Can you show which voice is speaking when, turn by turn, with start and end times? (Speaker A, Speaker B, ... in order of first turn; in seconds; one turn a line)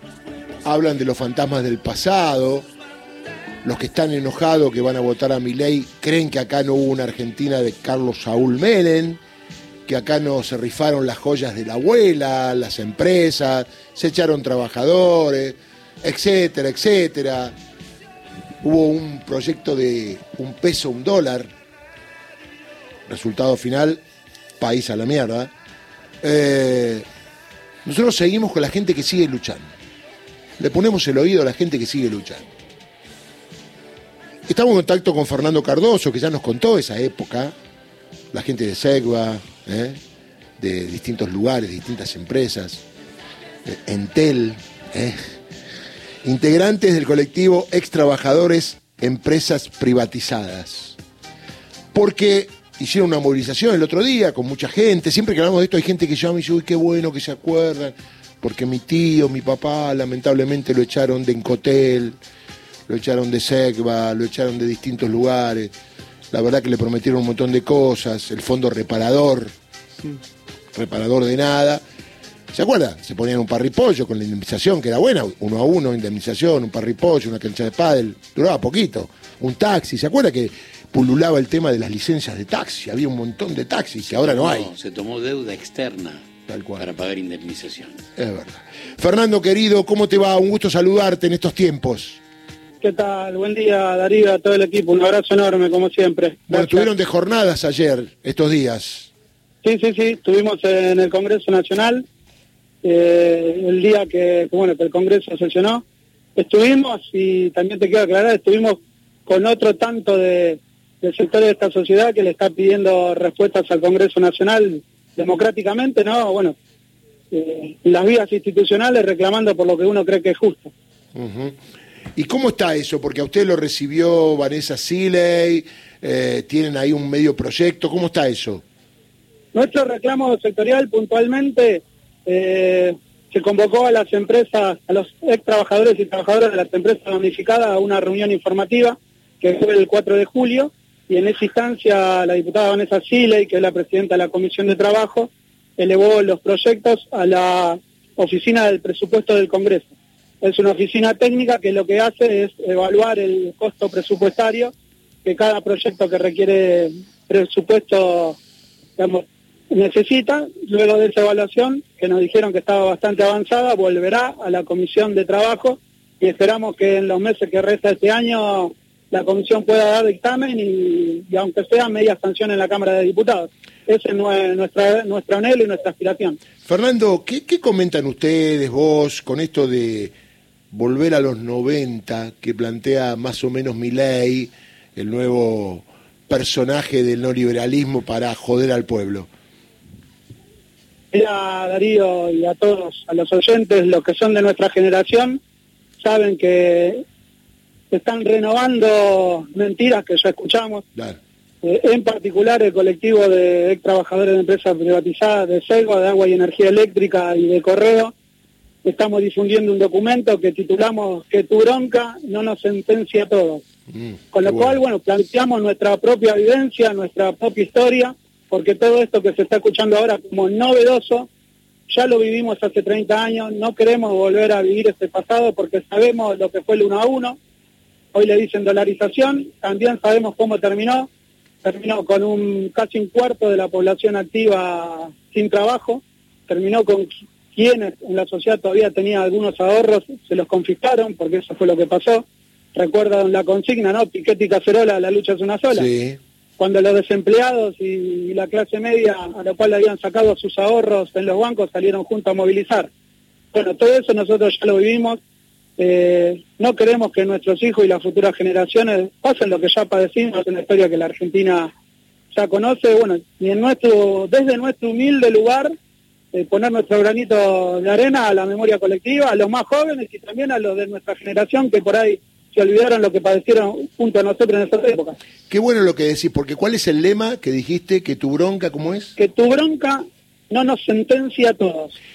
Speaker A: 0.6-2.7
Speaker A: 3.6-9.2
Speaker A: 9.8-17.5
Speaker A: 18.6-21.5
Speaker A: 23.1-24.0
Speaker A: 24.6-25.5
Speaker A: 26.2-27.1
Speaker A: 27.8-29.7
Speaker A: 30.6-32.5
Speaker A: 34.5-37.5
Speaker A: 38.3-40.0
Speaker A: 40.6-42.8
Speaker A: 43.6-45.2
Speaker A: 46.2-51.0
Speaker A: 51.9-62.2
Speaker A: 62.9-65.7
Speaker A: 66.3-69.5
Speaker A: 70.7-71.8
Speaker A: 72.5-84.7
Speaker B: 84.1-86.2
Speaker A: 86.5-86.8
Speaker B: 86.8-88.0
Speaker A: 88.2-92.2
Speaker C: 92.8-96.9
Speaker A: 96.5-99.1
Speaker C: 99.6-102.0
Speaker C: 102.8-105.8
Speaker C: 106.3-116.5
Speaker C: 117.3-120.7
Speaker A: 121.1-121.5
Speaker A: 122.2-128.6
Speaker C: 129.5-154.7
Speaker C: 155.2-158.4
Speaker C: 159.0-176.4
Speaker A: 176.6-180.1
Speaker A: 180.7-189.3
Speaker C: 191.1-195.4
Speaker C: 196.0-197.0
Speaker C: 197.9-200.8
Speaker C: 201.6-208.1
Speaker C: 208.8-213.6
Speaker A: 213.9-214.7
Speaker C: 214.3-221.3
Speaker C: 221.9-227.4
Speaker C: 228.1-231.1
Speaker C: 231.6-245.9
Speaker A: 245.7-246.2
Speaker C: 246.6-252.9
Speaker C: 253.5-255.2
Speaker C: 255.8-261.7
Speaker C: 262.3-265.7
Speaker C: 266.3-275.2
Speaker A: 275.5-279.1
Speaker C: 279.2-281.9